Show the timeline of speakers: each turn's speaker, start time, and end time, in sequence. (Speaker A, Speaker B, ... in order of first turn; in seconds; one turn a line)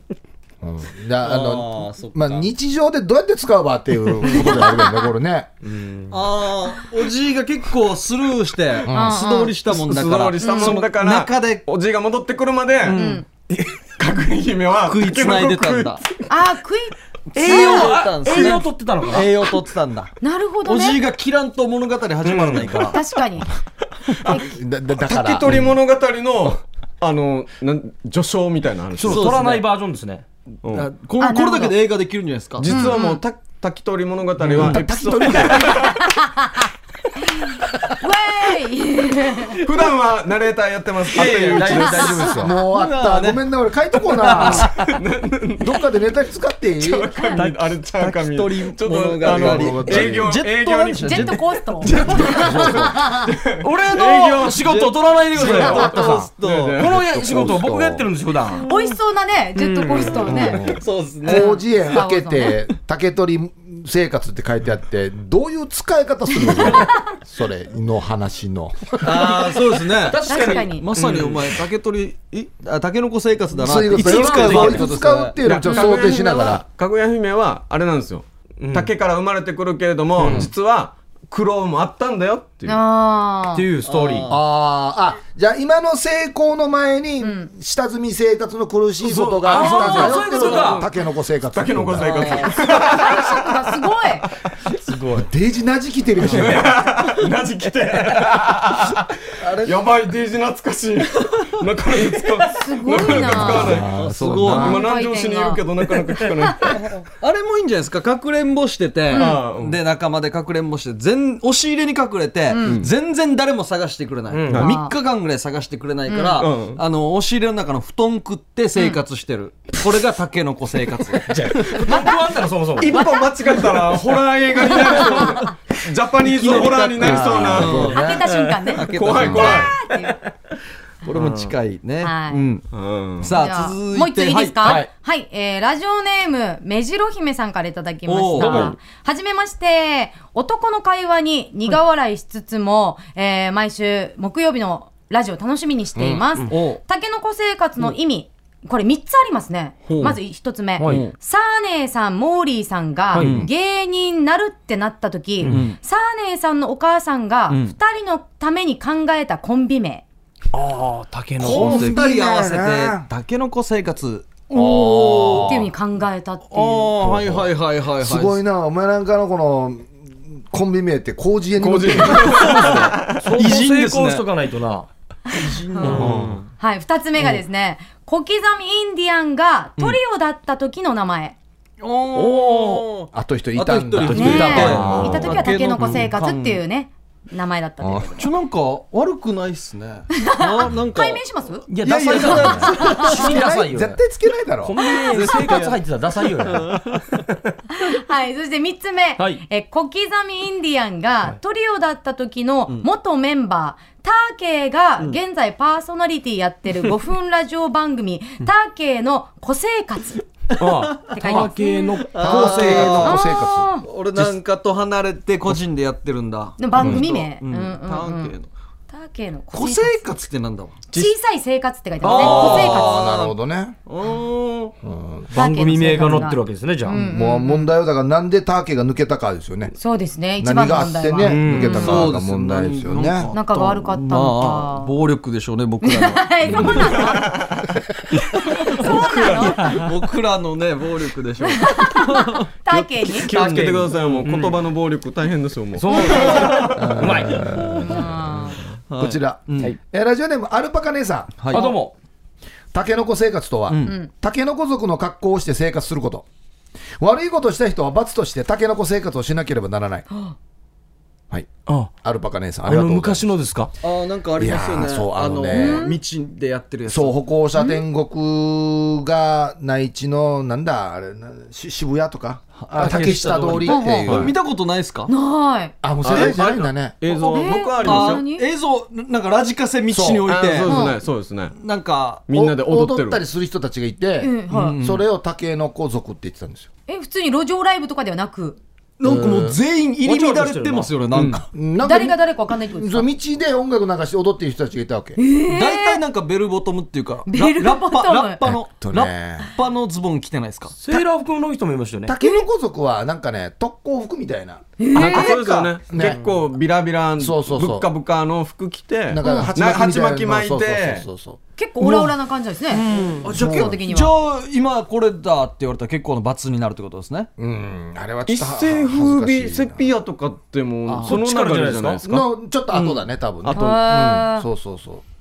Speaker A: 0.6-5.5
Speaker B: 1.2-2.5
Speaker C: 4.3-5.0
Speaker D: 5.7-6.1
Speaker B: 6.1-11.6
Speaker A: 8.9-9.2
Speaker C: 8.9-9.6
Speaker E: 9.7-16.2
Speaker C: 10.4-10.8
Speaker B: 12.8-13.2
Speaker C: 12.9-13.3
Speaker B: 14.9-16.0
Speaker C: 16.3-18.0
Speaker B: 17.3-20.1
Speaker D: 17.3-19.4
Speaker C: 20.2-21.0
Speaker B: 20.6-23.0
Speaker D: 22.2-22.9
Speaker C: 22.8-23.5
Speaker A: 24.3-25.8
Speaker E: 25.0-29.4
Speaker D: 29.0-30.2
Speaker B: 29.0-29.7
Speaker E: 30.6-30.9
Speaker B: 30.7-32.9
Speaker C: 31.2-31.8
Speaker E: 32.6-36.1
Speaker C: 32.7-33.2
Speaker B: 34.4-34.9
Speaker A: 34.6-35.9
Speaker C: 35.8-36.7
Speaker C: 37.2-39.6
Speaker E: 39.6-42.3
Speaker B: 41.1-43.4
Speaker D: 41.2-42.5
Speaker A: 42.3-44.7
Speaker B: 44.2-44.7
Speaker D: 44.4-44.9
Speaker E: 44.4-45.8
Speaker A: 45.6-47.1
Speaker E: 46.8-57.6
Speaker B: 47.4-52.5
Speaker A: 49.2-50.3
Speaker C: 51.0-53.3
Speaker A: 51.9-52.9
Speaker D: 53.6-58.7
Speaker B: 55.3-56.9
Speaker A: 57.2-58.0
Speaker C: 58.6-60.7
Speaker D: 59.6-60.5
Speaker A: 60.3-69.8
Speaker B: 60.6-61.6
Speaker C: 61.2-62.6
Speaker B: 69.0-75.3
Speaker D: 70.0-71.4
Speaker C: 70.2-70.9
Speaker E: 71.0-71.3
Speaker A: 73.6-76.6
Speaker D: 73.9-75.0
Speaker E: 75.4-82.8
Speaker C: 75.6-76.6
Speaker D: 78.6-78.9
Speaker A: 80.2-80.5
Speaker D: 80.2-80.5
Speaker C: 82.7-83.7
Speaker D: 83.5-84.3
Speaker B: 83.8-84.4
Speaker A: 84.3-92.3
Speaker C: 87.2-87.5
Speaker D: 89.0-90.9
Speaker E: 89.5-90.9
Speaker B: 89.6-90.1
Speaker E: 91.5-93.7
Speaker B: 92.0-92.7
Speaker C: 92.5-94.3
Speaker D: 94.9-95.2
Speaker A: 95.1-96.7
Speaker E: 96.3-106.8
Speaker B: 99.4-99.8
Speaker C: 102.5-103.8
Speaker A: 103.3-104.8
Speaker B: 103.4-104.8
Speaker C: 104.5-105.6
Speaker B: 107.1-121.9
Speaker C: 109.1-109.4
Speaker E: 109.1-109.8
Speaker C: 112.5-112.8
Speaker E: 112.6-112.9
Speaker D: 114.3-114.7
Speaker C: 114.5-114.9
Speaker C: 116.1-116.5
Speaker E: 116.4-116.8
Speaker D: 121.3-123.0
Speaker C: 121.8-122.2
Speaker E: 122.8-127.9
Speaker C: 122.9-123.7
Speaker C: 124.7-125.5
Speaker B: 126.2-128.1
Speaker A: 127.0-128.3
Speaker C: 127.7-130.2
Speaker D: 128.3-128.8
Speaker B: 128.7-129.8
Speaker E: 128.9-129.7
Speaker A: 129.2-129.6
Speaker B: 131.0-132.7
Speaker D: 131.1-131.5
Speaker C: 132.0-132.4
Speaker E: 132.7-133.4
Speaker B: 133.2-134.8
Speaker C: 133.3-160.0
Speaker A: 134.6-134.9
Speaker B: 138.1-138.8
Speaker D: 138.4-138.7
Speaker E: 138.4-138.7
Speaker B: 146.5-146.8
Speaker B: 149.9-150.2
Speaker D: 150.8-151.1
Speaker B: 150.8-151.1
Speaker D: 153.1-153.4
Speaker B: 153.2-153.5
Speaker B: 155.4-155.8
Speaker B: 157.5-157.8
Speaker D: 160.5-162.0
Speaker A: 161.4-163.1
Speaker B: 161.4-165.6
Speaker A: 164.5-165.7
Speaker C: 165.3-166.9
Speaker B: 166.5-168.4
Speaker A: 167.0-172.7
Speaker E: 171.6-173.2
Speaker B: 172.4-174.2
Speaker D: 172.6-174.9
Speaker B: 175.3-176.5
Speaker C: 175.3-181.4
Speaker D: 175.8-176.4
Speaker E: 175.9-176.4
Speaker B: 181.8-186.6
Speaker D: 182.1-182.9
Speaker A: 183.1-185.4
Speaker E: 184.0-185.3
Speaker C: 184.1-188.3
Speaker D: 184.2-186.0
Speaker A: 187.8-188.1
Speaker B: 188.2-191.2
Speaker C: 190.2-193.3
Speaker D: 191.7-194.0
Speaker B: 191.8-193.5
Speaker A: 193.1-194.8
Speaker D: 194.6-197.2
Speaker B: 194.9-197.0
Speaker C: 197.8-210.2
Speaker D: 199.2-199.4
Speaker D: 210.6-213.1
Speaker B: 210.6-211.5
Speaker C: 211.1-212.2
Speaker B: 212.1-213.2
Speaker A: 212.2-213.7
Speaker C: 212.7-213.9
Speaker B: 213.8-218.5
Speaker C: 216.6-218.3
Speaker C: 218.9-220.0
Speaker B: 219.5-220.8
Speaker C: 220.9-223.0
Speaker B: 222.0-223.4
Speaker A: 222.1-223.8
Speaker D: 222.3-222.5
Speaker B: 223.9-224.8
Speaker A: 224.8-225.3
Speaker D: 225.3-227.0
Speaker C: 225.3-227.7
Speaker A: 226.9-229.8
Speaker C: 229.8-232.1
Speaker A: 230.4-233.3
Speaker D: 231.2-232.1
Speaker B: 231.5-237.2
Speaker C: 233.3-234.9
Speaker C: 235.8-237.3
Speaker E: 236.7-237.7
Speaker C: 238.6-239.8
Speaker E: 238.6-239.8
Speaker D: 239.4-239.9
Speaker B: 239.6-242.8
Speaker C: 241.4-243.3
Speaker D: 243.2-244.6
Speaker E: 243.3-246.9
Speaker D: 245.8-247.9
Speaker C: 245.9-246.6
Speaker A: 246.8-248.3
Speaker B: 247.7-248.1
Speaker C: 247.8-248.6
Speaker B: 248.9-249.8
Speaker A: 249.0-251.5
Speaker B: 251.4-251.7
Speaker D: 251.5-251.9
Speaker A: 252.7-256.3
Speaker B: 253.7-254.0
Speaker A: 257.0-260.1
Speaker A: 262.0-263.3
Speaker D: 262.7-263.7
Speaker B: 263.8-267.2
Speaker A: 264.4-265.9
Speaker C: 265.5-266.0
Speaker A: 266.9-274.4
Speaker C: 267.6-267.8
Speaker B: 272.6-275.1
Speaker D: 272.8-273.3
Speaker C: 273.6-274.1
Speaker E: 274.1-274.4
Speaker C: 275.1-275.8
Speaker A: 275.8-276.9
Speaker E: 276.0-278.2
Speaker B: 276.1-276.4
Speaker C: 277.1-278.5
Speaker B: 277.8-280.8
Speaker A: 279.9-280.3
Speaker E: 280.3-281.6
Speaker C: 280.6-281.0
Speaker B: 281.5-282.3
Speaker E: 282.3-283.2
Speaker A: 282.3-286.7
Speaker C: 284.2-284.8
Speaker B: 284.5-285.0
Speaker C: 286.9-288.6
Speaker B: 289.0-291.5
Speaker A: 289.0-289.6
Speaker D: 290.0-290.9
Speaker E: 291.1-291.4
Speaker A: 291.5-292.2
Speaker C: 291.8-293.1
Speaker A: 292.7-295.2
Speaker C: 295.2-296.0
Speaker B: 295.5-301.0
Speaker C: 297.3-298.4
Speaker A: 298.4-299.5
Speaker D: 300.8-302.1
Speaker A: 302.1-304.6
Speaker C: 302.2-302.5
Speaker C: 304.8-305.4
Speaker E: 304.9-311.1
Speaker B: 305.0-305.7
Speaker A: 305.9-306.2
Speaker A: 307.2-307.9
Speaker A: 309.1-311.4
Speaker C: 309.2-309.5
Speaker C: 311.6-314.1
Speaker B: 311.8-312.1
Speaker B: 312.8-317.3
Speaker D: 312.9-313.3
Speaker A: 313.2-313.8
Speaker A: 317.4-319.9
Speaker E: 318.3-322.2
Speaker A: 320.9-321.1
Speaker D: 321.1-322.0
Speaker A: 322.0-325.0
Speaker B: 322.7-323.1
Speaker C: 323.5-324.5
Speaker E: 323.5-323.8